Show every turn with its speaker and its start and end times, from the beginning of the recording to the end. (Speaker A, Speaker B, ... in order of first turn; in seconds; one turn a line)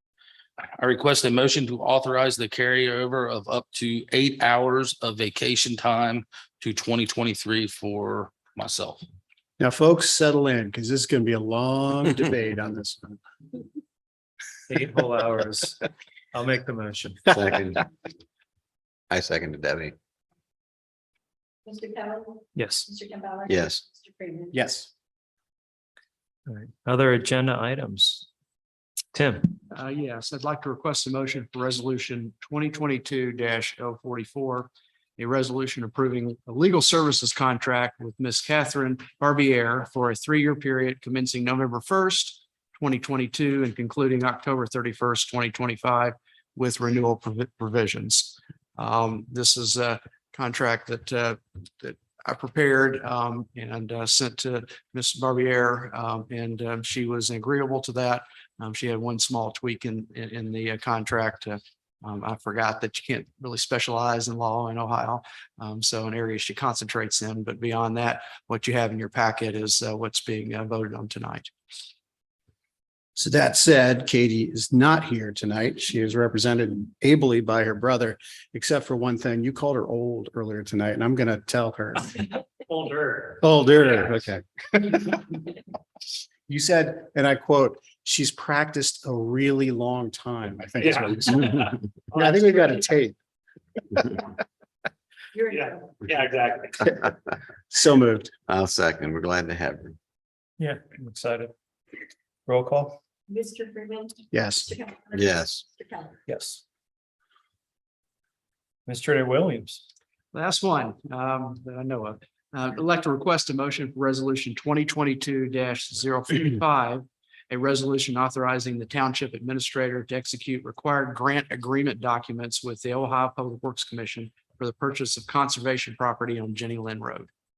Speaker A: 0.8-9.0
Speaker B: 9.6-13.2
Speaker C: 14.7-17.4
Speaker D: 17.3-17.8
Speaker D: 19.1-19.9
Speaker E: 21.6-24.5
Speaker C: 22.5-22.9
Speaker D: 23.5-23.8
Speaker B: 24.5-24.9
Speaker C: 26.5-28.3
Speaker C: 29.1-29.6
Speaker F: 29.7-71.5
Speaker B: 73.2-82.1
Speaker C: 82.8-83.2
Speaker B: 83.4-85.2
Speaker B: 86.5-93.2
Speaker E: 95.3-96.0
Speaker C: 96.1-96.7
Speaker B: 96.8-97.1
Speaker B: 97.7-98.3
Speaker D: 98.5-100.0
Speaker C: 100.6-101.5
Speaker C: 102.5-103.0
Speaker E: 103.3-106.1
Speaker B: 104.3-104.7
Speaker D: 105.1-105.6
Speaker C: 106.3-106.6
Speaker C: 108.8-109.8
Speaker F: 110.3-127.3